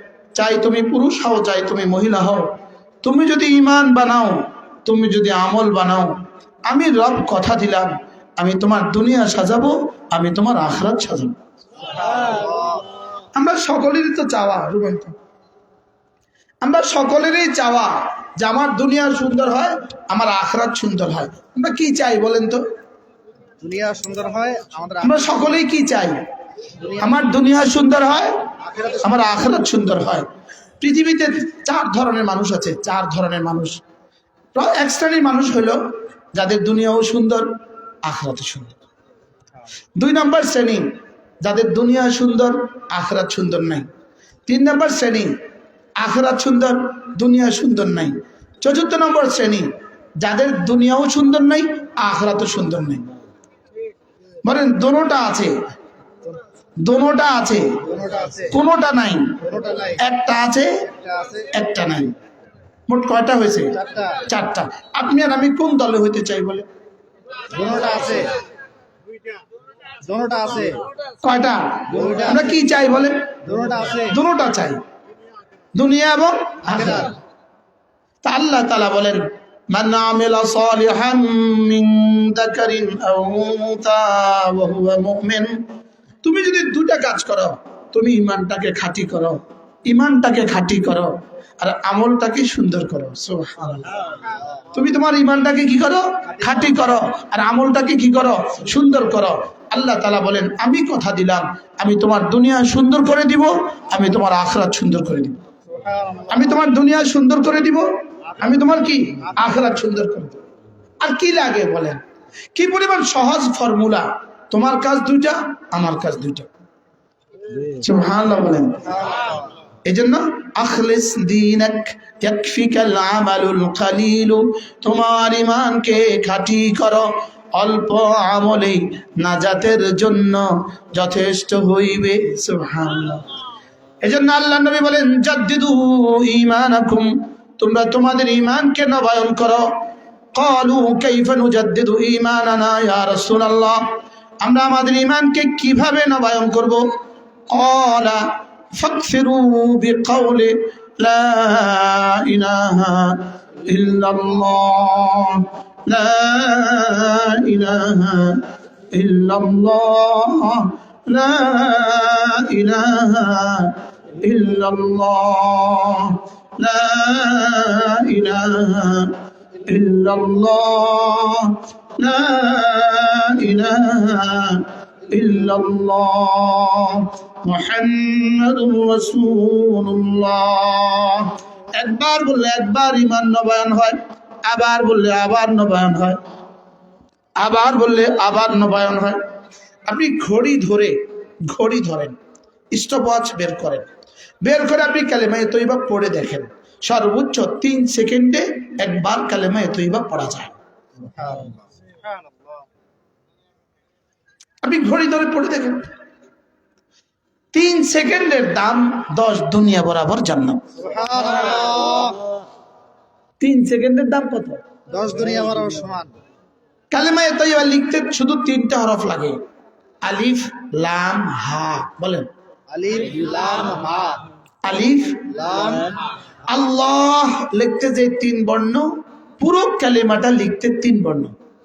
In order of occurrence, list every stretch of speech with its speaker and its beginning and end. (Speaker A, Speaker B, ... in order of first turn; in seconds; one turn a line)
Speaker A: 0.3-2.5
Speaker A: 3.0-6.1
Speaker A: 6.7-11.3
Speaker B: 11.9-12.9
Speaker A: 13.3-15.1
Speaker A: 16.6-22.6
Speaker B: 23.6-25.5
Speaker A: 25.0-26.2
Speaker B: 26.8-27.1
Speaker A: 27.0-28.4
Speaker B: 28.7-29.0
Speaker A: 29.0-30.3
Speaker A: 30.8-33.8
Speaker A: 34.5-35.8
Speaker A: 36.3-37.5
Speaker A: 38.0-38.8
Speaker A: 40.0-40.8
Speaker A: 41.4-43.9
Speaker A: 44.5-45.3
Speaker A: 46.0-53.0
Speaker A: 54.4-55.5
Speaker A: 56.8-57.8
Speaker B: 57.8-58.6
Speaker A: 58.5-59.4
Speaker B: 59.4-60.0
Speaker A: 60.0-60.7
Speaker B: 61.0-61.5
Speaker A: 61.5-62.1
Speaker A: 62.9-63.8
Speaker B: 63.7-64.2
Speaker A: 64.3-66.7
Speaker B: 67.5-68.4
Speaker B: 70.0-70.8
Speaker A: 71.2-73.3
Speaker B: 71.9-72.5
Speaker B: 73.5-74.1
Speaker A: 74.0-74.8
Speaker A: 75.8-77.1
Speaker B: 76.7-77.1
Speaker A: 78.2-85.6
Speaker A: 86.2-94.0
Speaker A: 94.7-105.4
Speaker B: 96.4-96.6
Speaker B: 105.7-106.6
Speaker A: 106.3-107.9
Speaker A: 108.4-110.4
Speaker A: 111.0-112.0
Speaker A: 112.5-116.5
Speaker A: 117.6-118.8
Speaker B: 118.8-119.5
Speaker A: 119.8-133.2
Speaker A: 134.0-139.7
Speaker A: 140.3-143.8
Speaker A: 144.4-146.9
Speaker A: 147.5-186.2
Speaker A: 187.4-189.2
Speaker A: 189.9-192.2
Speaker A: 192.7-193.9
Speaker A: 194.4-200.5
Speaker B: 201.0-201.6
Speaker A: 204.6-205.8
Speaker A: 207.5-210.6
Speaker B: 210.8-212.2
Speaker A: 213.4-214.6
Speaker B: 214.9-216.1
Speaker A: 216.9-219.4
Speaker A: 220.0-222.3
Speaker B: 222.7-224.3
Speaker A: 224.6-225.3
Speaker B: 225.3-226.0
Speaker A: 226.5-231.3